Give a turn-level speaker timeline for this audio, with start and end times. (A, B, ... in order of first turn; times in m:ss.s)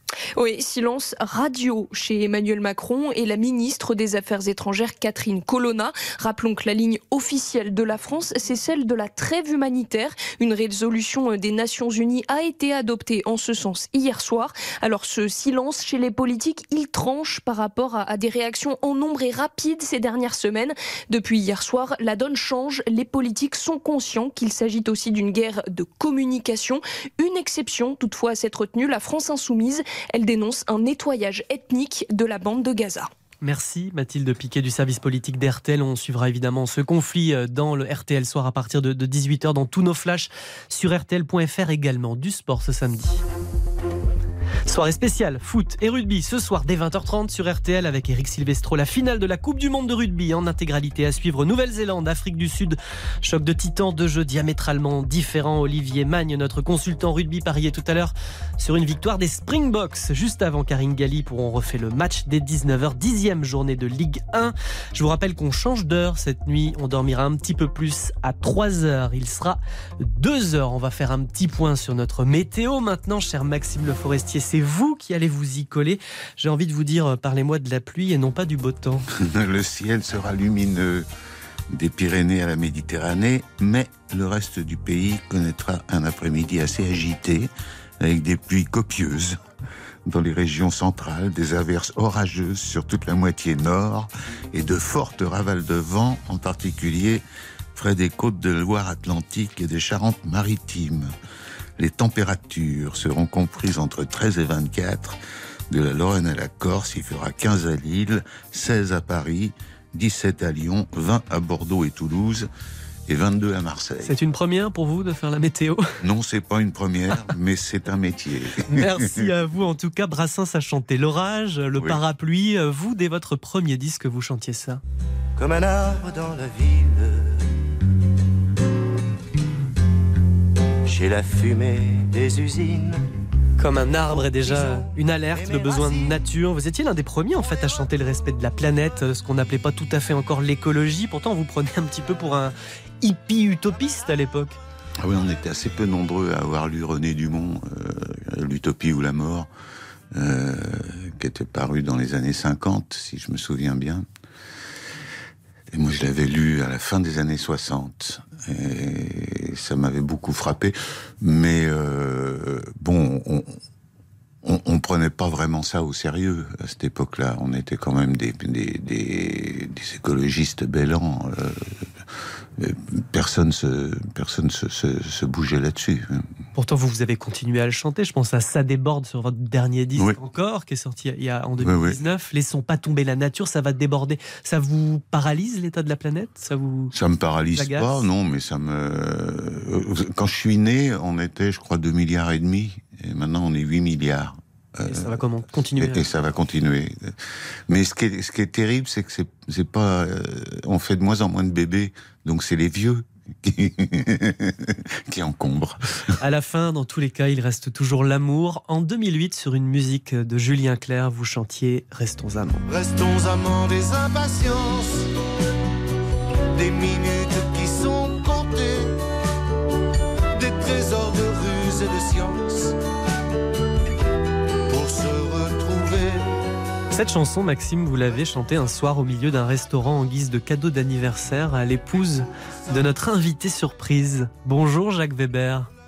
0:00.4-0:33.1 A
0:33.4-0:43.2 B
0:44.7-1:19.1 B
1:19.1-1:21.1 C
1:21.7-1:29.4 C
1:30.1-1:41.1 C
1:41.8-1:45.2 C
1:45.7-1:52.5 C
1:53.1-1:54.1 C
1:54.0-1:55.8 B
1:56.0-1:59.3 C
1:58.7-2:04.8 B
2:05.4-2:07.5 D
2:10.8-2:13.1 D
2:13.6-2:24.6 B
2:14.1-2:16.2 D
2:25.0-2:29.5 C
2:30.1-2:34.1 C
2:35.7-2:43.6 C
2:44.4-2:51.9 C
2:52.6-2:56.2 C
2:56.6-3:06.9 B
3:01.6-3:02.0 C
3:06.9-3:15.2 C
3:07.6-3:08.1 B
3:14.9-3:16.1 B
3:15.8-3:17.2 C
3:17.7-3:25.9 C
3:26.2-3:32.6 B
3:32.7-3:35.1 D
3:36.5-3:39.0 D
3:40.4-3:42.8 D
3:44.7-3:46.3 D
3:46.9-3:55.7 B